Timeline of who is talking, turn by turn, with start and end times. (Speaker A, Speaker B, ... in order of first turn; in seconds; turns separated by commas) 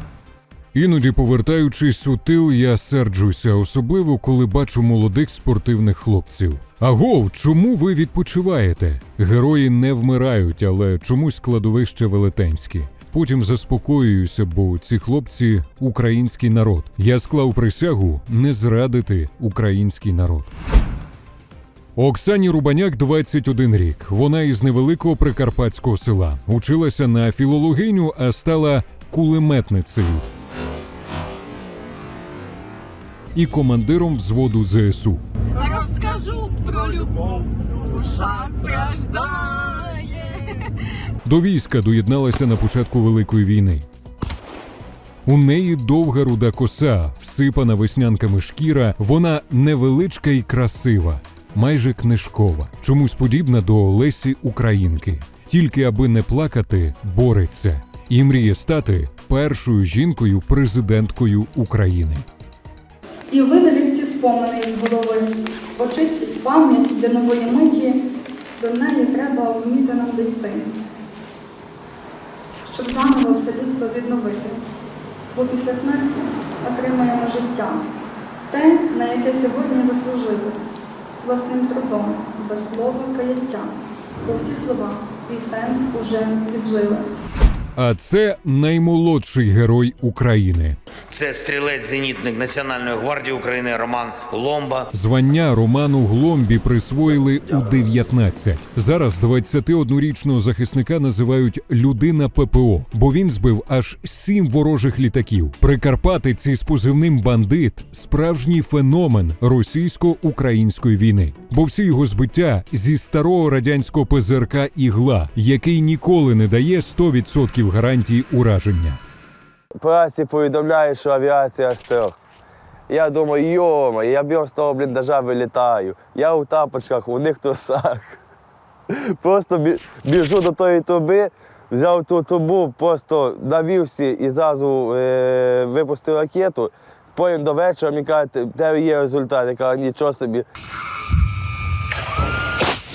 Speaker A: 0.7-20.5, Speaker A: 22.0-30.3, Speaker A: 33.4-35.2, Speaker B: 35.7-37.1, Speaker B: 38.0-40.0, Speaker A: 41.2-43.9, Speaker A: 45.3-62.3, Speaker C: 63.3-68.0, Speaker C: 68.6-70.8, Speaker C: 72.7-74.6, Speaker C: 75.3-77.8, Speaker C: 78.5-80.6, Speaker C: 81.2-87.1, Speaker A: 87.8-90.8, Speaker D: 91.1-94.8, Speaker A: 94.9-119.0, Speaker E: 119.8-122.2, Speaker E: 122.9-128.2, Speaker E: 129.1-140.5